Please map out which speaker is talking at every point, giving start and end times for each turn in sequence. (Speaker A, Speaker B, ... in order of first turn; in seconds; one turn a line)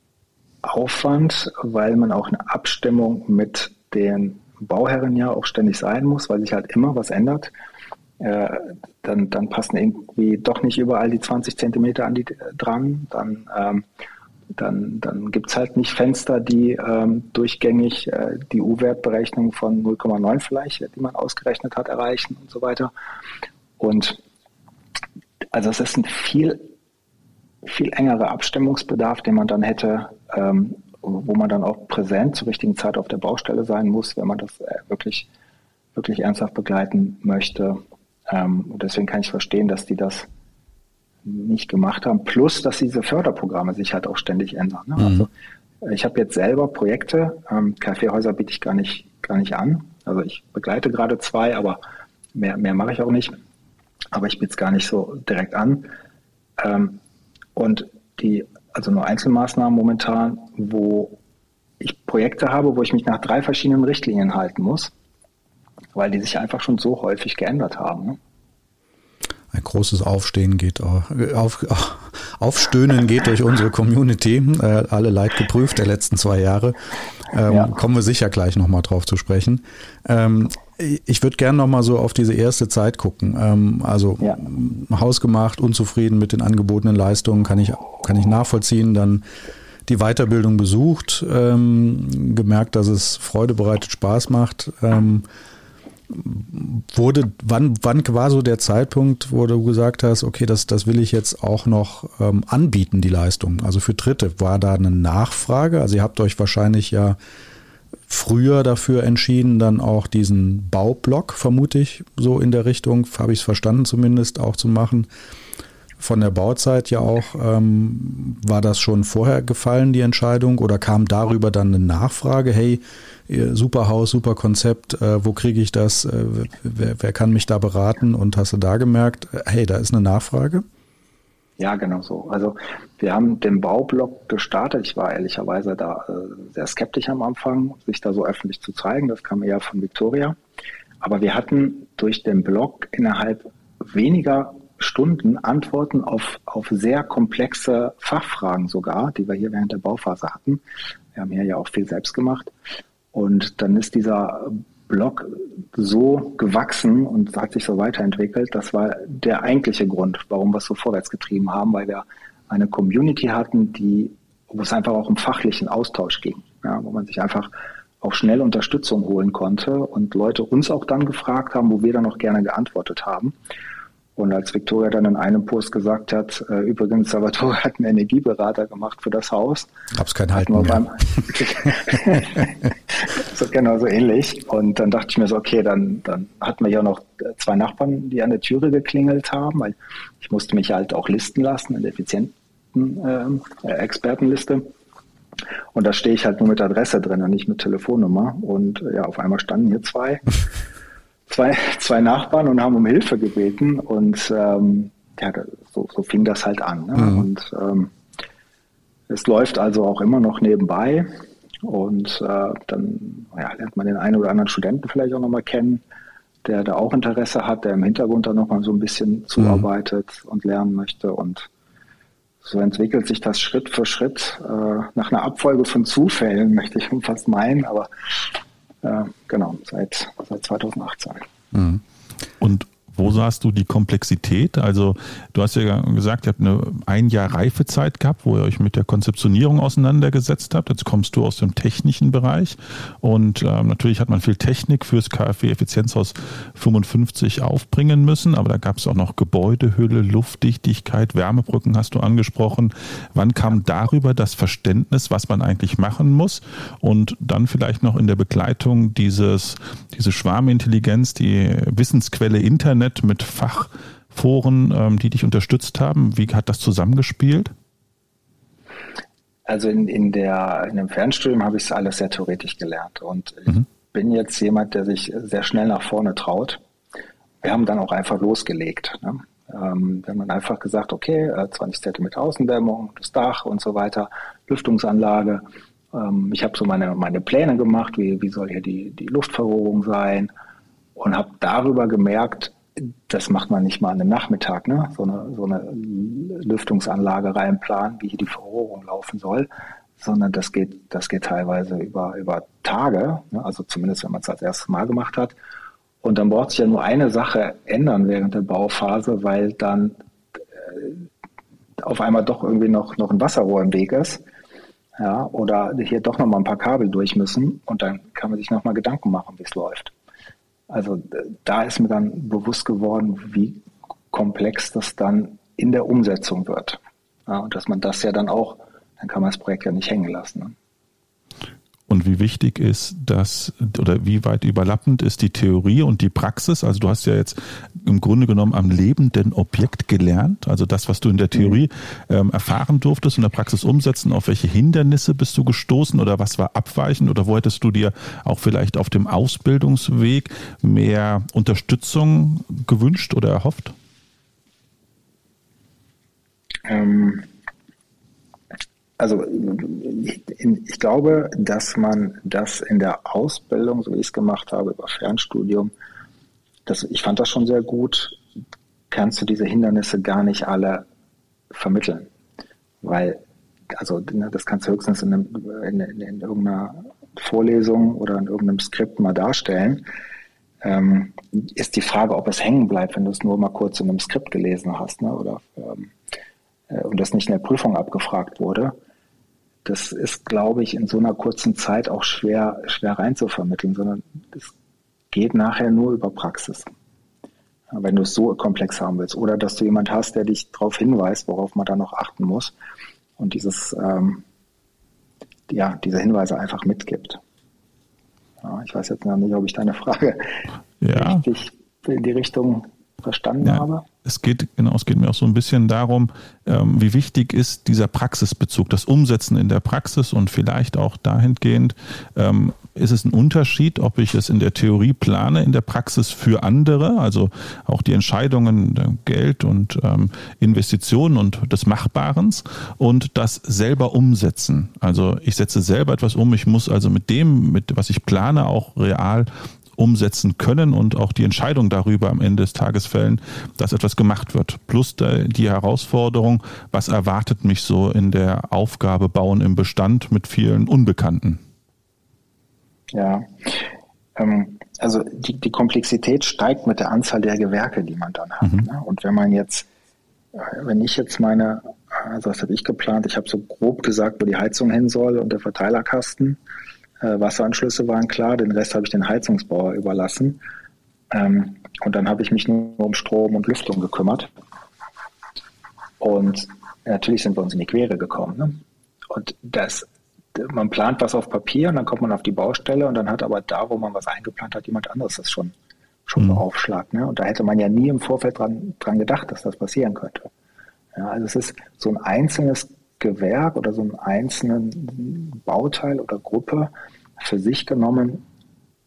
Speaker A: 0.6-7.5
Speaker A: 8.2-13.8
Speaker A: 14.5-22.9
Speaker A: 23.8-24.2
Speaker A: 25.5-26.7
Speaker A: 27.6-35.3
Speaker A: 35.9-40.3
Speaker A: 41.2-45.3
Speaker B: 45.0-45.3
Speaker A: 45.8-51.8
Speaker A: 52.3-53.4
Speaker A: 54.1-55.9
Speaker A: 56.6-57.0
Speaker A: 57.5-61.2
Speaker A: 61.8-64.9
Speaker A: 65.9-68.2
Speaker B: 69.5-89.2
Speaker A: 77.5-77.7
Speaker B: 89.8-95.2
Speaker B: 96.1-107.2
Speaker B: 108.1-115.1
Speaker B: 116.0-130.6
Speaker A: 131.6-140.3
Speaker A: 141.0-150.6
Speaker A: 151.1-152.5
Speaker A: 153.1-173.3
Speaker A: 174.2-179.7
Speaker B: 179.9-180.9
Speaker A: 180.3-194.7
Speaker A: 195.7-200.2
Speaker A: 201.3-207.9
Speaker A: 209.1-215.8
Speaker A: 216.4-221.5
Speaker B: 219.4-219.6
Speaker A: 222.4-227.9
Speaker A: 228.8-231.2
Speaker B: 231.5-231.8
Speaker C: 232.4-267.5
Speaker A: 269.5-276.6
Speaker A: 277.4-290.3
Speaker A: 290.9-305.4
Speaker A: 306.0-310.0
Speaker A: 310.6-311.1
Speaker A: 311.8-314.2
Speaker A: 315.0-319.9
Speaker A: 320.7-330.6
Speaker C: 331.9-353.7
Speaker A: 356.6-357.3
Speaker A: 359.0-365.7
Speaker A: 366.6-368.2
Speaker A: 368.9-370.9
Speaker A: 371.5-372.1
Speaker A: 372.8-373.2
Speaker A: 373.7-379.9
Speaker A: 380.6-385.9
Speaker A: 386.7-388.8
Speaker A: 389.6-394.5
Speaker A: 395.1-396.7
Speaker A: 397.7-402.5
Speaker A: 403.2-404.2
Speaker A: 405.5-407.2
Speaker A: 408.4-413.8
Speaker C: 410.8-411.2
Speaker C: 413.4-451.4
Speaker A: 452.9-459.7
Speaker A: 460.3-466.4
Speaker A: 467.0-470.4
Speaker A: 471.1-474.3
Speaker A: 476.0-485.5
Speaker A: 486.1-490.3
Speaker A: 490.9-498.2